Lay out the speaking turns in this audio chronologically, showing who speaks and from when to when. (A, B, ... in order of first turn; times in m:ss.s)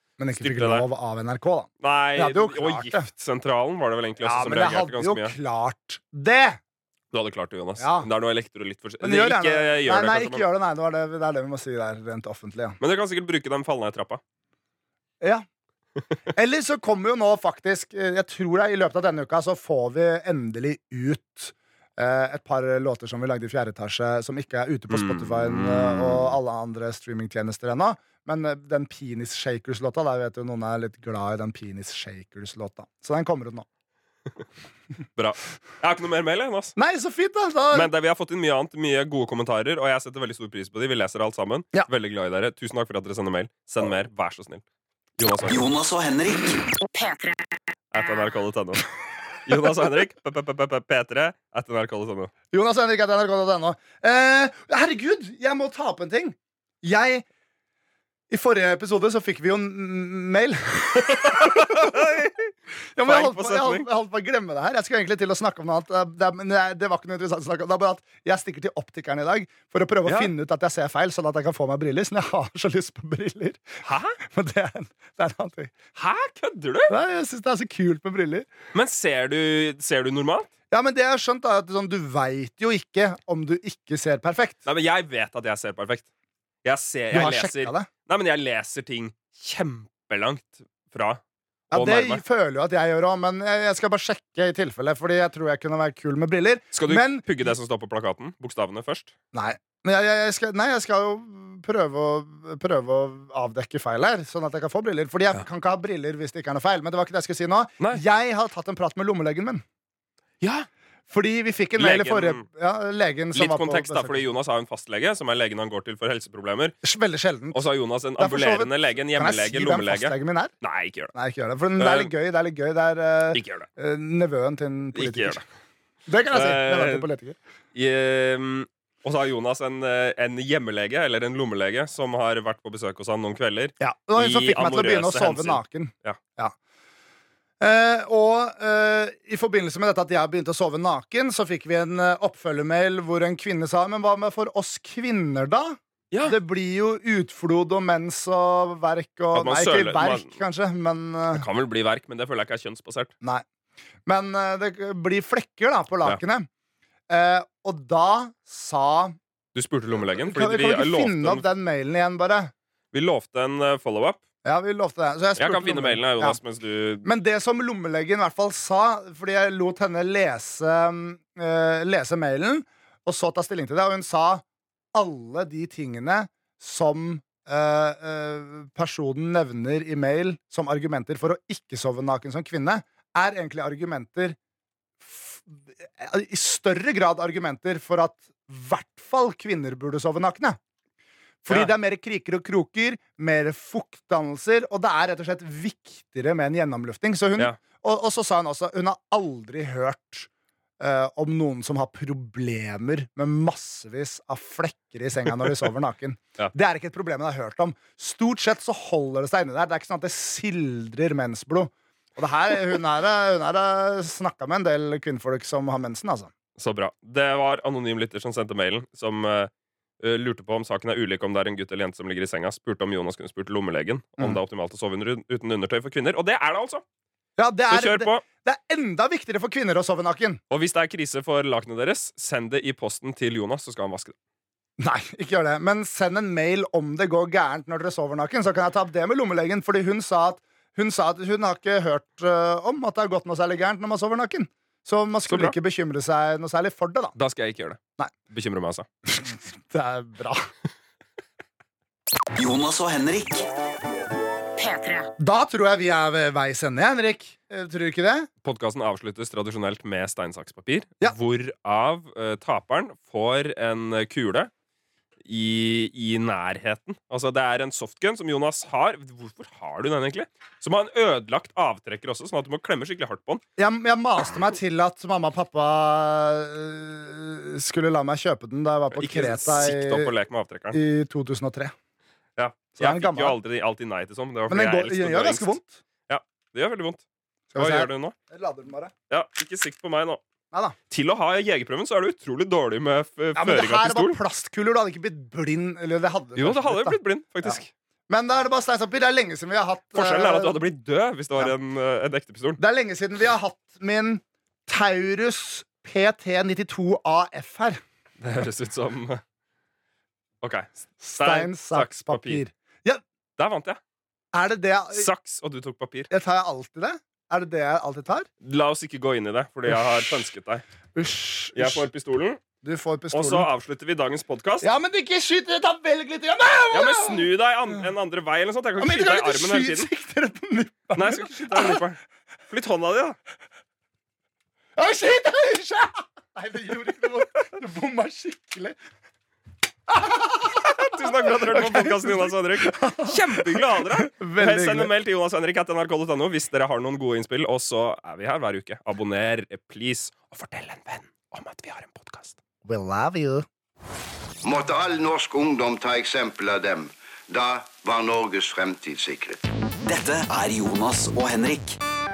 0:00.2-0:03.1 A
0:00.4-0:00.8 B
0:01.8-0:05.3 B
0:04.2-0:06.6 A
0:07.1-0:10.4 B
0:07.8-0:08.1 A
0:09.0-0:12.8 A
0:12.8-0:14.2 B
0:16.3-0:33.6 A
0:24.9-0:26.4 B
0:35.2-0:36.7 B
0:36.8-0:37.9 A
0:37.7-0:44.6 B
0:45.2-0:45.7 B
0:45.5-0:46.6 C
0:46.8-0:48.3 D
0:47.9-0:48.8 B
0:49.4-0:52.3 B
0:52.5-0:57.2 A
0:58.3-1:02.2 A
1:01.0-1:02.5 B
1:02.9-1:15.7 A
1:03.0-1:03.8 B
1:10.0-1:10.3 B
1:13.8-1:14.2 B
1:16.0-1:16.9 B
1:16.9-1:18.5 A
1:18.7-1:20.5 B
1:20.7-1:24.6 A
1:24.6-1:26.0 B
1:26.6-1:31.2 B
1:27.1-1:27.9 A
1:31.7-1:37.3 A
1:31.7-1:32.2 B
1:36.7-1:39.1 B
1:39.3-1:49.6 A
1:50.4-1:50.7 B
1:51.1-1:54.2 A
1:51.8-1:52.4 B
1:53.3-1:56.8 B
1:56.8-2:00.5 A
1:57.5-2:01.1 B
2:01.1-2:05.4 A
2:01.8-2:02.1 B
2:03.3-2:03.7 B
2:04.9-2:05.4 B
2:06.1-2:07.4 A
2:06.3-2:07.1 B
2:07.7-2:16.2 B
2:13.8-2:16.5 A
2:17.6-2:31.4 A
2:26.1-2:26.4 B
2:29.3-2:30.4 B
2:31.3-2:33.1 B
2:34.0-2:36.5 A
2:37.1-2:39.2 A
2:39.5-2:41.4 B
2:40.0-2:42.5 A
2:42.9-2:44.2 B
2:44.4-2:46.4 A
2:45.4-2:47.0 B
2:47.0-3:04.4 A
3:05.0-3:10.6 A
3:11.4-3:20.3 A
3:20.8-3:36.3 A
3:36.6-3:46.8 B
3:47.4-3:50.4 A
3:47.7-3:48.2 B
3:50.5-3:54.1 B
3:54.8-4:07.1 A
4:05.3-4:05.6 B
4:07.2-4:08.8 B
4:09.1-4:10.5 A
4:12.3-4:13.5 C
4:14.6-4:15.1 D
4:15.2-4:18.3 A
4:18.4-4:24.5 B
4:25.2-4:33.4 B
4:33.6-4:40.1 A
4:38.9-4:40.8 B
4:40.7-4:41.7 A
4:42.4-4:45.5 B
4:42.8-4:43.4 A
4:44.5-4:45.8 A
4:46.1-4:47.0 B
4:47.5-4:48.9 A
4:47.6-4:48.1 B
4:49.1-4:50.2 B
4:50.5-4:50.8 A
4:50.9-4:54.2 B
4:53.4-4:57.6 A
4:56.4-4:57.7 B
4:58.1-5:00.6 A
4:59.9-5:02.6 B
5:02.6-5:07.8 A
5:08.2-5:09.2 B
5:10.4-5:12.4 B
5:11.0-5:13.0 A
5:13.4-5:13.8 B
5:14.3-5:15.1 A
5:14.9-5:16.1 B
5:16.1-5:18.3 A
5:18.4-5:20.6 B
5:20.9-5:21.9 A
5:21.5-5:22.4 B
5:22.6-5:23.5 A
5:23.1-5:24.7 B
5:24.6-5:27.3 A
5:26.7-5:29.9 B
5:28.8-5:31.8 A
5:30.9-5:33.2 B
5:34.8-5:38.8 A
5:39.9-5:44.9 A
5:40.6-5:52.4 B
5:52.6-5:53.4 A
5:54.4-5:59.4 E
5:59.8-6:01.8 C